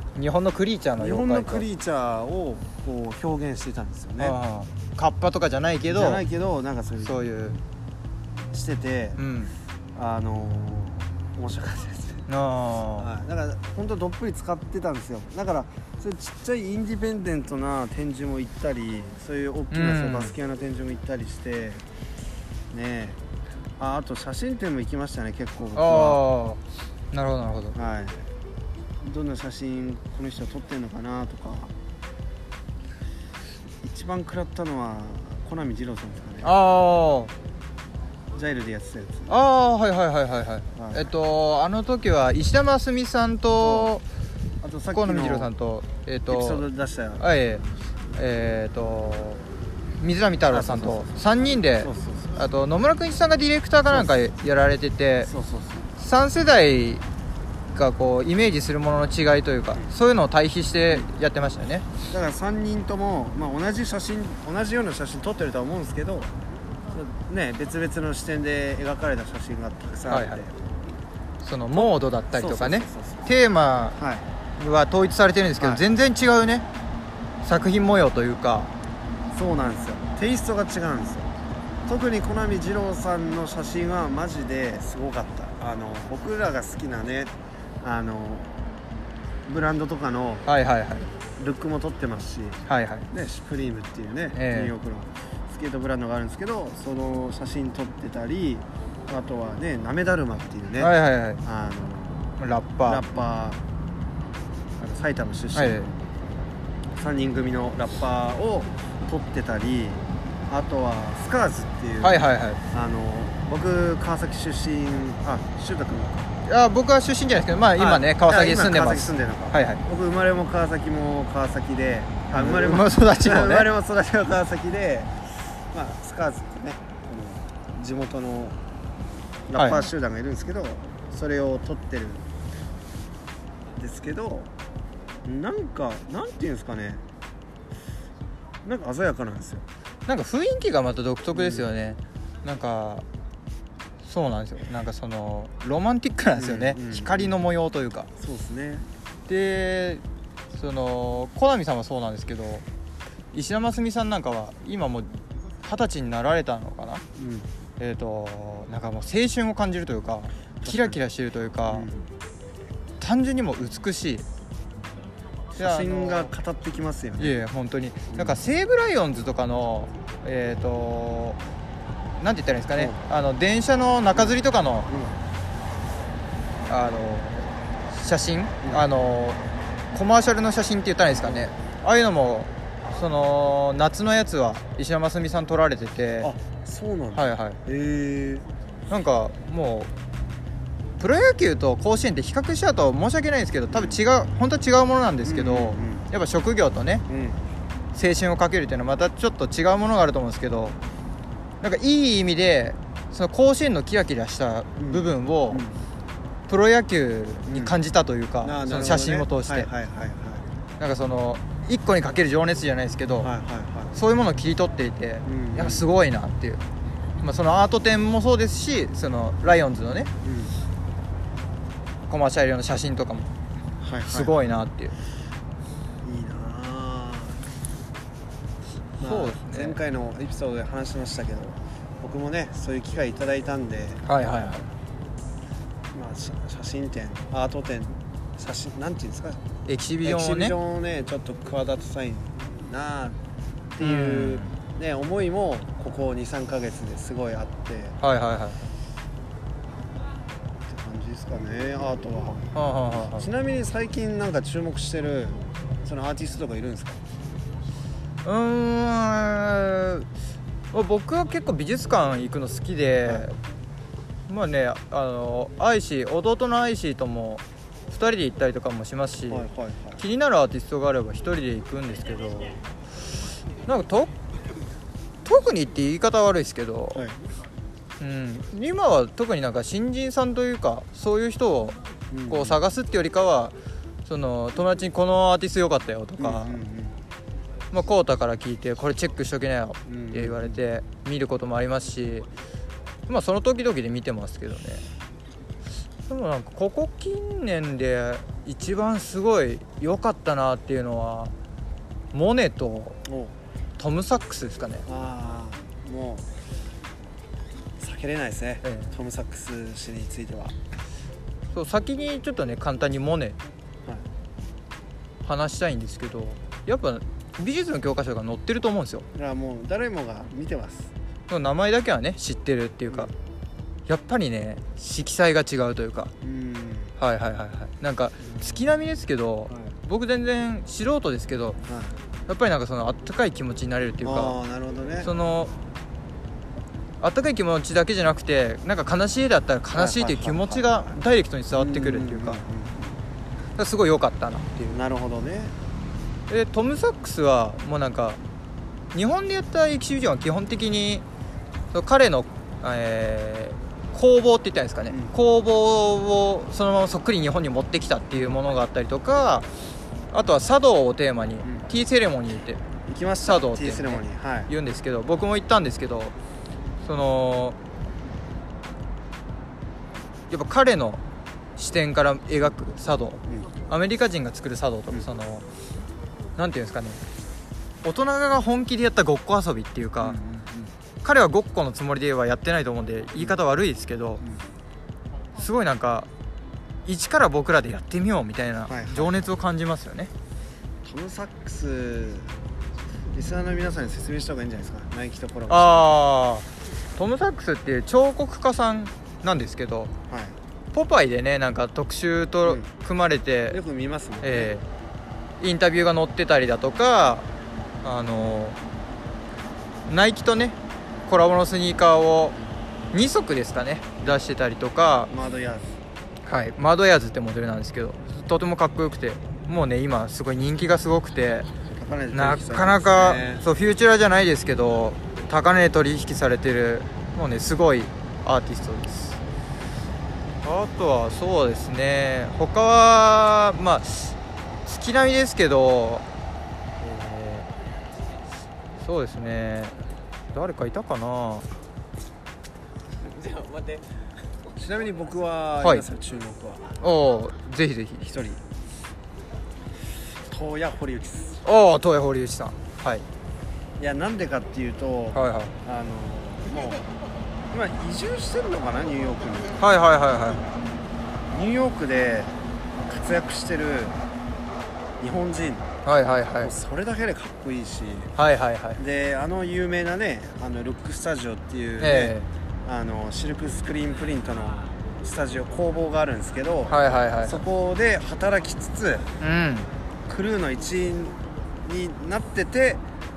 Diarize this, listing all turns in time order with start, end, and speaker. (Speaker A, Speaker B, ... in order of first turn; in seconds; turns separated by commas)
Speaker A: 0.1-1.7, Speaker B: 1.0-4.4, Speaker A: 4.2-6.2, Speaker B: 5.9-7.2, Speaker A: 7.0-7.6, Speaker B: 8.5-9.2, Speaker A: 9.2-9.5, Speaker B: 9.9-12.2, Speaker A: 12.3-13.1, Speaker B: 13.0-21.8, Speaker A: 19.7-20.3, Speaker B: 22.7-23.2, Speaker B: 23.8-26.2, Speaker A: 25.7-26.6, Speaker A: 27.1-27.8, Speaker B: 27.7-28.3, Speaker B: 29.0-31.7, Speaker B: 33.8-36.5, Speaker A: 36.4-37.3, Speaker B: 38.3-39.3, Speaker A: 39.3-44.0, Speaker B: 40.7-41.0, Speaker B: 43.6-43.9, Speaker B: 44.6-45.5, Speaker A: 44.9-46.6, Speaker B: 46.3-47.2, Speaker A: 47.2-49.4, Speaker A: 50.0-55.3, Speaker B: 50.5-51.2, Speaker B: 51.8-52.4, Speaker B: 53.9-54.1, Speaker B: 55.2-55.9, Speaker A: 56.0-57.0, Speaker A: 57.7-61.9, Speaker B: 62.1-66.3, Speaker B: 66.9-70.7, Speaker A: 70.1-70.4, Speaker A: 71.4-74.0, Speaker B: 71.7-73.3, Speaker B: 74.0-74.2, Speaker A: 74.6-76.7, Speaker A: 77.4-78.7, Speaker B: 79.3-81.3, Speaker B: 81.8-88.8, Speaker B: 89.4-90.5, Speaker A: 90.5-91.1, Speaker B: 91.4-103.6, Speaker A: 92.7-93.1, Speaker A: 94.3-94.7, Speaker A: 100.8-101.4, Speaker A: 102.4-103.0, Speaker B: 104.8-106.0, Speaker A: 105.5-105.9, Speaker B: 106.9-112.2, Speaker A: 112.0-112.6, Speaker B: 112.7-116.3, Speaker A: 116.4-119.8, Speaker B: 117.8-128.6, Speaker A: 122.3-123.7, Speaker B: 129.5-132.2, Speaker A: 129.6-129.9, Speaker B: 133.8-134.5, Speaker B: 135.2-137.0, Speaker B: 138.6-139.7, Speaker A: 140.1-143.0, Speaker B: 141.3-141.7, Speaker A: 144.0-148.1, Speaker B: 146.3-147.3, Speaker B: 148.2-148.8, Speaker A: 149.3-150.0, Speaker A: 150.5-152.6, Speaker A: 153.3-155.1, Speaker A: 155.6-157.0, Speaker B: 157.1-157.5, Speaker A: 157.8-161.9, Speaker B: 160.6-161.0, Speaker B: 161.7-162.1, Speaker A: 163.0-164.2, Speaker B: 165.5-167.4, Speaker A: 165.6-166.3, Speaker A: 167.2-171.4, Speaker B: 168.1-168.4, Speaker A: 172.2-174.9, Speaker B: 174.9-175.2, Speaker A: 176.7-179.4, Speaker A: 179.9-186.3, Speaker B: 181.2-181.5, Speaker B: 186.2-188.4, Speaker A: 187.1-187.6, Speaker A: 188.9-189.9, Speaker A: 191.0-197.0, Speaker B: 193.7-194.0, Speaker B: 195.2-196.1, Speaker B: 197.1-197.4, Speaker A: 197.9-200.8, Speaker A: 201.6-205.6, Speaker B: 204.8-205.8, Speaker A: 206.5-209.7, Speaker B: 207.5-207.8, Speaker B: 208.4-210.4, Speaker A: 210.8-213.3, Speaker B: 213.2-213.9, Speaker A: 213.9-216.6, Speaker B: 215.2-215.9, Speaker A: 217.2-220.1, Speaker B: 220.2-220.5, Speaker A: 222.1-223.3, Speaker B: 223.8-224.3, Speaker A: 224.0-224.9, Speaker B: 226.0-227.4, Speaker B: 229.0-234.0, Speaker A: 229.0-229.8, Speaker A: 234.0-234.7, Speaker B: 235.9-239.4, Speaker A: 239.7-240.6, Speaker B: 240.0-243.2, Speaker B: 243.7-248.0, Speaker A: 243.8-244.5, Speaker A: 248.0-248.6, Speaker B: 250.7-257.0, Speaker A: 252.5-253.3, Speaker A: 258.2-260.1, Speaker A: 260.7-263.4, Speaker A: 264.3-272.6, Speaker B: 269.3-270.0, Speaker A: 273.6-274.1, Speaker A: 275.2-277.0, Speaker A: 278.0-281.8, Speaker B: 282.1-282.6, Speaker A: 282.3-283.5, Speaker A: 284.1-286.6, Speaker B: 286.2-287.0, Speaker A: 287.7-292.3, Speaker B: 289.9-290.6, Speaker A: 293.1-294.8, Speaker A: 296.1-301.3, Speaker A: 302.1-303.0, Speaker B: 303.1-303.3, Speaker A: 303.8-304.9, Speaker B: 304.9-306.3, Speaker B: 307.8-310.6, Speaker A: 308.6-308.9, Speaker A: 311.5-313.4, Speaker A: 315.2-319.1, Speaker B: 319.1-320.9, Speaker A: 321.3-323.1, Speaker A: 323.9-326.1, Speaker B: 326.2-326.9, Speaker A: 327.0-331.6, Speaker B: 331.7-331.9, Speaker A: 332.3-334.4, Speaker B: 334.0-335.1, Speaker A: 335.0-335.5, Speaker A: 337.0-342.4, Speaker B: 339.7-341.0, Speaker B: 341.5-343.0, Speaker A: 343.6-344.8, Speaker B: 344.7-345.6, Speaker A: 346.3-348.2, Speaker A: 348.9-351.0, Speaker A: 351.7-359.5, Speaker B: 354.9-355.1, Speaker A: 360.1-362.6, Speaker B: 362.9-364.5, Speaker A: 363.2-366.1, Speaker A: 366.8-367.6, Speaker A: 370.3-371.0, Speaker A: 371.6-375.4, Speaker A: 376.4-377.0, Speaker A: 377.8-380.2, Speaker B: 380.0-380.7, Speaker A: 381.0-384.2, Speaker A: 385.4-386.1, Speaker A: 386.8-390.1, Speaker B: 388.7-389.3, Speaker B: 390.8-392.4, Speaker B: 393.1-395.9, Speaker A: 395.5-399.9, Speaker B: 400.1-400.4, Speaker A: 400.7-403.6, Speaker B: 402.4-402.7, Speaker B: 403.5-404.5, Speaker A: 404.2-404.6, Speaker A: 405.4-407.2, Speaker A: 407.8-408.6, Speaker A: 409.9-412.4, Speaker A: 412.9-415.1, Speaker B: 415.1-415.8, Speaker A: 416.2-421.5, Speaker B: 421.7-423.4, Speaker A: 422.1-429.2, Speaker A: 430.4-436.0, Speaker A: 436.8-437.5, Speaker A: 438.8-439.8, Speaker A: 440.3-441.5, Speaker B: 443.2-443.7, Speaker B: 444.4-446.8, Speaker A: 445.6-445.9, Speaker A: 446.8-448.1, Speaker B: 448.1-448.4, Speaker B: 450.3-451.4, Speaker A: 451.4-453.1, Speaker B: 453.8-456.9, Speaker A: 455.1-455.5, Speaker B: 457.5-459.6, Speaker A: 459.6-460.4, Speaker B: 461.3-464.0, Speaker B: 465.0-465.7, Speaker A: 465.8-466.5, Speaker B: 466.4-468.1, Speaker A: 468.1-468.8, Speaker B: 468.8-479.1, Speaker A: 471.8-472.3, Speaker A: 476.7-477.4, Speaker A: 479.2-479.7, Speaker B: 480.1-482.8